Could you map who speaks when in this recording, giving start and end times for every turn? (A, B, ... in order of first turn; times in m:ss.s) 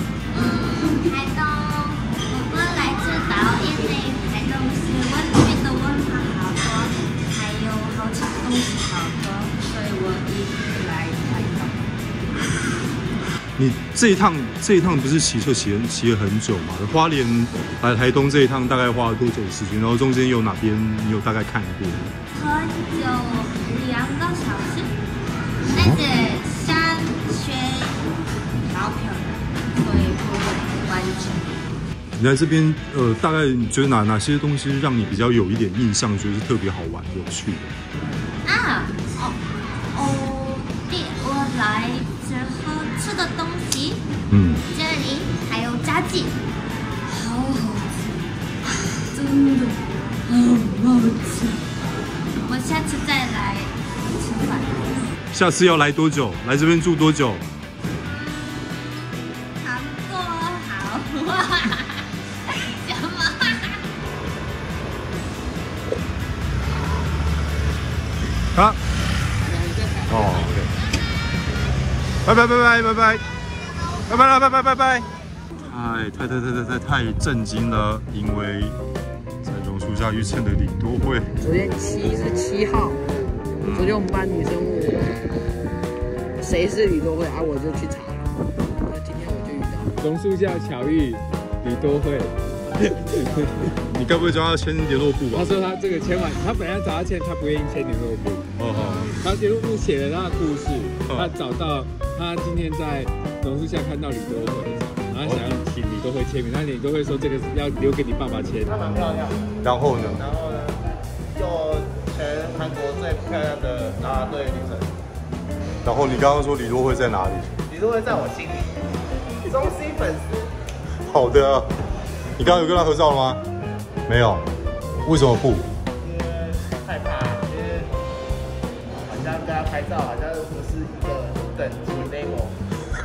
0:00.3-0:11.9 A
0:13.6-0:22.1 B
0:22.3-0:24.9 A
0:25.7-0:28.1 A
0:28.7-0:31.6 A
0:32.2-0:37.7 B
0:38.4-0:39.4 A
0:39.9-0:44.0 A
0:44.3-0:44.6 B
0:44.6-0:46.4 A
0:47.0-0:51.7 A
0:52.4-0:55.1 A
0:55.3-0:57.4 B
0:58.1-0:58.9 A
0:59.6-1:03.8 A
1:09.4-1:10.4 C
1:10.1-1:10.7 B
1:12.2-1:13.2 B
1:14.1-1:15.1 B
1:15.6-1:18.8 B
1:19.4-1:21.3 B
1:21.4-1:25.4 D
1:23.6-1:24.0 B
1:26.4-1:30.0 D
1:30.0-1:33.7 E
1:33.9-1:35.5 B
1:35.3-1:38.5 E
1:38.6-1:39.1 B
1:39.1-1:48.8 E
1:48.6-1:49.4 C
1:49.6-1:50.2 B
1:50.1-1:50.8 C
1:51.3-1:54.9 C
1:55.8-1:57.5 B
1:57.7-1:58.9 C
1:59.4-2:00.5 C
2:01.1-2:01.7 B
2:02.4-2:03.4 B
2:04.1-2:04.4 B
2:05.0-2:05.7 B
2:06.0-2:08.0 C
2:09.0-2:12.6 C